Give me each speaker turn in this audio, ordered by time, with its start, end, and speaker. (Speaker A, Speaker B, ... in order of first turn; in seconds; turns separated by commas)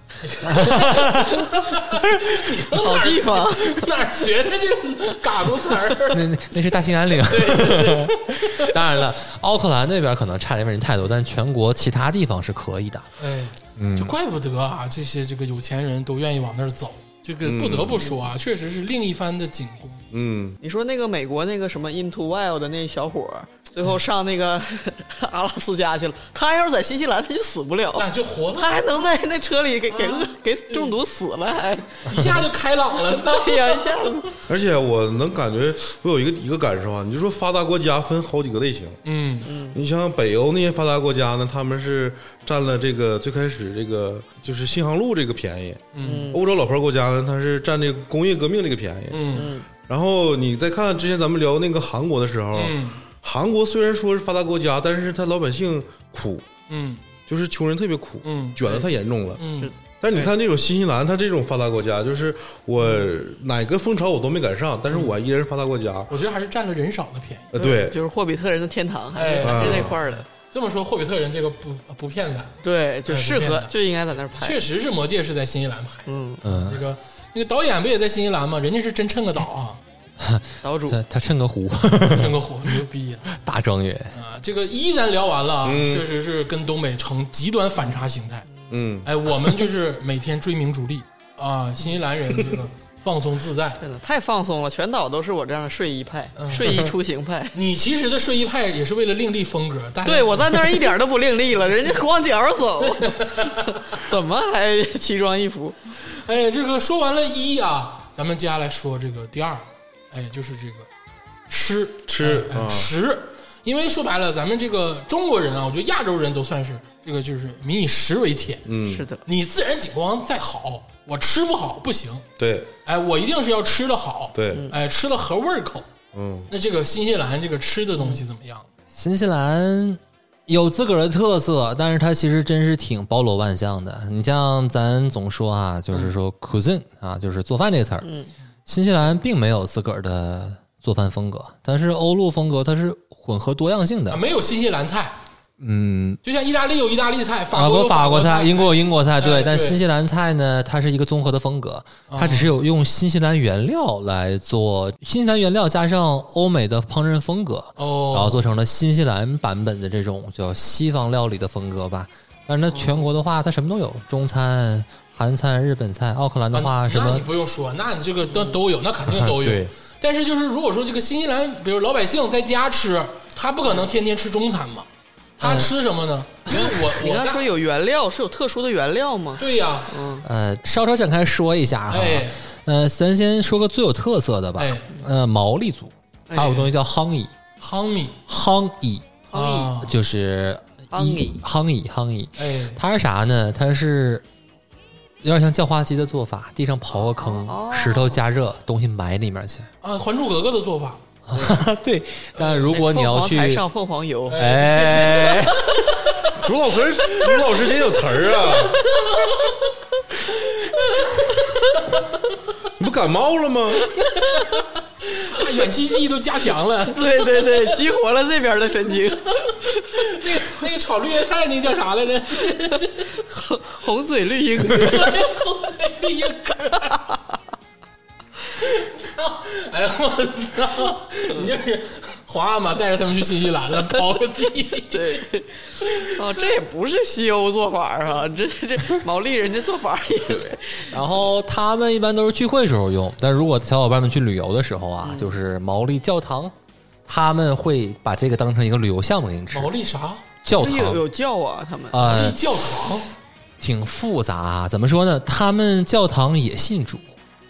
Speaker A: 0.3-6.3, Speaker B: 0.5-1.4, Speaker C: 2.6-3.9, Speaker B: 6.1-13.1, Speaker C: 7.3-8.1, Speaker A: 13.2-20.1, Speaker B: 13.8-14.2, Speaker D: 17.4-18.0, Speaker D: 20.1-20.6, Speaker C: 20.6-32.1, Speaker A: 28.0-29.1, Speaker A: 29.9-30.9, Speaker A: 32.0-34.1, Speaker C: 33.0-34.3, Speaker D: 34.5-39.0, Speaker A: 39.0-39.5, Speaker C: 39.5-39.8, Speaker D: 39.7-56.5, Speaker A: 45.9-46.3, Speaker C: 46.0-46.4, Speaker A: 49.1-49.5, Speaker C: 49.3-49.7, Speaker A: 52.5-53.0, Speaker A: 56.7-57.0, Speaker D: 57.3-66.1, Speaker A: 58.2-58.9, Speaker A: 59.4-59.7, Speaker C: 59.6-60.2, Speaker A: 66.1-67.5, Speaker D: 67.5-68.0, Speaker C: 67.5-70.3, Speaker A: 69.2-73.7, Speaker D: 69.4-70.0, Speaker C: 72.6-74.6, Speaker A: 74.3-79.8, Speaker C: 76.1-76.4, Speaker B: 76.4-76.8, Speaker B: 80.2-82.4, Speaker C: 80.6-81.0, Speaker A: 82.1-83.3, Speaker B: 83.3-84.2, Speaker A: 84.1-88.5, Speaker D: 85.6-86.1, Speaker D: 88.7-89.1, Speaker A: 89.0-93.8, Speaker C: 93.8-97.6, Speaker A: 96.4-96.9, Speaker A: 97.5-100.9, Speaker C: 100.0-105.8, Speaker A: 102.8-103.8, Speaker A: 106.1-110.9, Speaker A: 111.5-118.7, Speaker D: 112.1-112.9, Speaker D: 118.7-119.1, Speaker C: 118.8-119.2, Speaker A: 119.3-122.3, Speaker D: 122.4-122.7, Speaker A: 122.9-125.9, Speaker D: 124.3-124.7, Speaker D: 126.1-126.5, Speaker A: 126.5-128.7, Speaker B: 128.9-138.1, Speaker C: 138.0-138.3, Speaker B: 138.7-144.2, Speaker A: 144.1-145.2, Speaker B: 145.6-146.2, Speaker A: 146.2-149.8, Speaker B: 147.5-167.3, Speaker A: 152.1-152.6, Speaker A: 157.8-158.5, Speaker C: 162.7-163.1, Speaker A: 166.5-174.9, Speaker C: 168.3-168.6, Speaker B: 169.1-169.7, Speaker A: 175.4-177.5, Speaker B: 175.4-175.7, Speaker C: 176.5-180.3, Speaker A: 179.4-180.0, Speaker B: 180.2-187.4, Speaker A: 181.9-182.4, Speaker A: 184.6-184.9, Speaker C: 186.3-186.6, Speaker A: 186.3-186.7, Speaker A: 187.6-188.2, Speaker B: 188.3-194.2, Speaker C: 189.3-189.8, Speaker A: 189.3-189.9, Speaker C: 190.9-191.4, Speaker A: 192.4-192.8, Speaker B: 195.2-199.7, Speaker C: 197.2-198.2, Speaker A: 199.8-201.0, Speaker B: 201.3-203.6, Speaker A: 202.4-202.8, Speaker C: 202.7-204.4, Speaker A: 204.3-206.3, Speaker B: 204.3-205.8, Speaker D: 206.3-208.8, Speaker A: 207.1-207.5, Speaker A: 208.5-209.5, Speaker C: 208.9-209.2, Speaker A: 210.4-211.3, Speaker D: 212.8-213.9, Speaker A: 214.0-217.6, Speaker C: 216.9-219.9, Speaker A: 219.9-223.2, Speaker C: 223.1-225.2, Speaker A: 224.7-227.0, Speaker A: 228.6-235.3, Speaker C: 234.9-240.9, Speaker A: 235.8-236.1, Speaker B: 240.8-246.5, Speaker C: 245.0-245.4, Speaker B: 247.1-249.7, Speaker A: 249.5-250.3, Speaker B: 250.4-251.0, Speaker C: 250.5-252.0, Speaker B: 251.9-252.4, Speaker A: 251.9-253.1, Speaker B: 253.6-257.1